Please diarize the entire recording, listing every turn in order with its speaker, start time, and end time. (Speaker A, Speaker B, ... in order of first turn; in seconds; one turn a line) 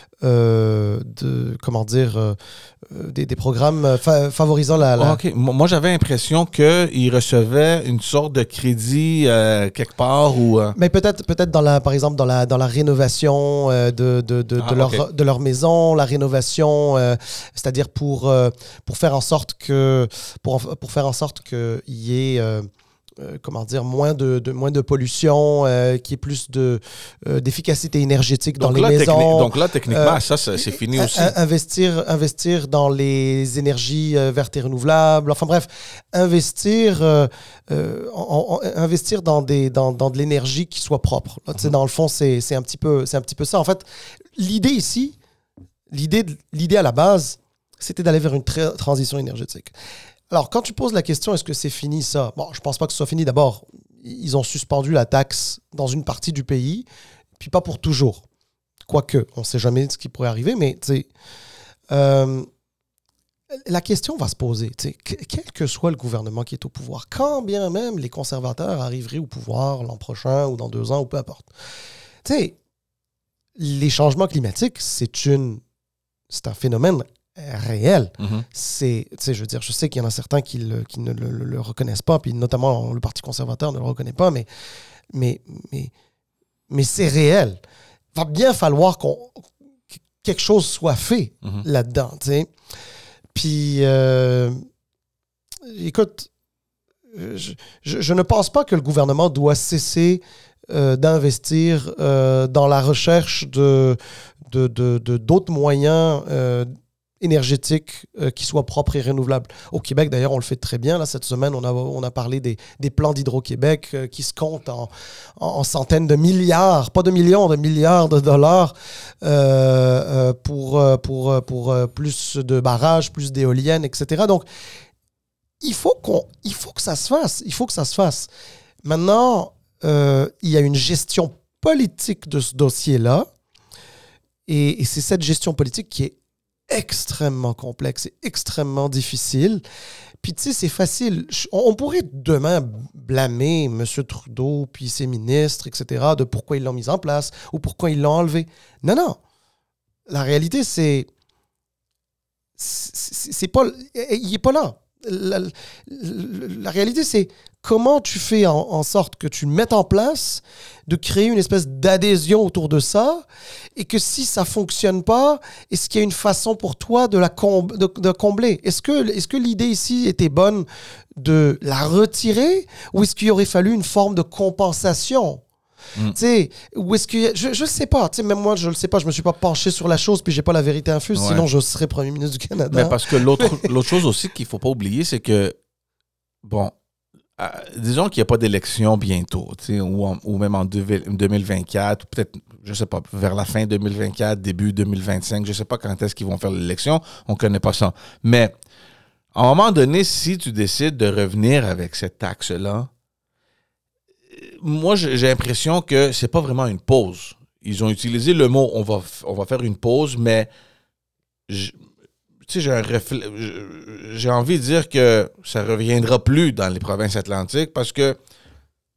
Speaker A: 0.2-5.2
Speaker B: 5.0-10.8
Speaker A: 10.8-22.7
Speaker B: 14.6-15.0
Speaker A: 23.2-43.8
Speaker B: 28.6-31.3
Speaker A: 44.4-45.1
Speaker A: 45.9-49.7
Speaker A: 50.3-56.9
Speaker A: 57.4-58.2
Speaker A: 58.9-61.1
Speaker A: 61.9-62.5
Speaker A: 63.6-71.5
Speaker A: 72.2-72.5
Speaker A: 73.5-75.6
Speaker A: 76.3-84.5
Speaker B: 78.2-78.4
Speaker A: 85.1-85.9
Speaker A: 86.7-87.6
Speaker A: 88.1-89.5
Speaker A: 90.2-92.5
Speaker A: 93.3-94.6
Speaker A: 95.6-96.3
Speaker A: 97.1-104.0
Speaker A: 104.5-124.5
Speaker A: 125.6-128.3
Speaker A: 128.8-133.3
Speaker A: 134.5-136.2
Speaker A: 136.7-139.6
Speaker A: 140.2-149.2
Speaker A: 150.1-151.1
Speaker A: 152.6-163.2
Speaker A: 163.8-170.7
Speaker A: 171.2-175.4
Speaker A: 176.1-183.7
Speaker B: 181.1-181.4
Speaker B: 182.7-185.6
Speaker B: 186.4-186.7
Speaker B: 187.4-198.5
Speaker B: 199.3-202.9
Speaker B: 204.3-210.5
Speaker B: 211.5-211.8
Speaker B: 212.4-218.2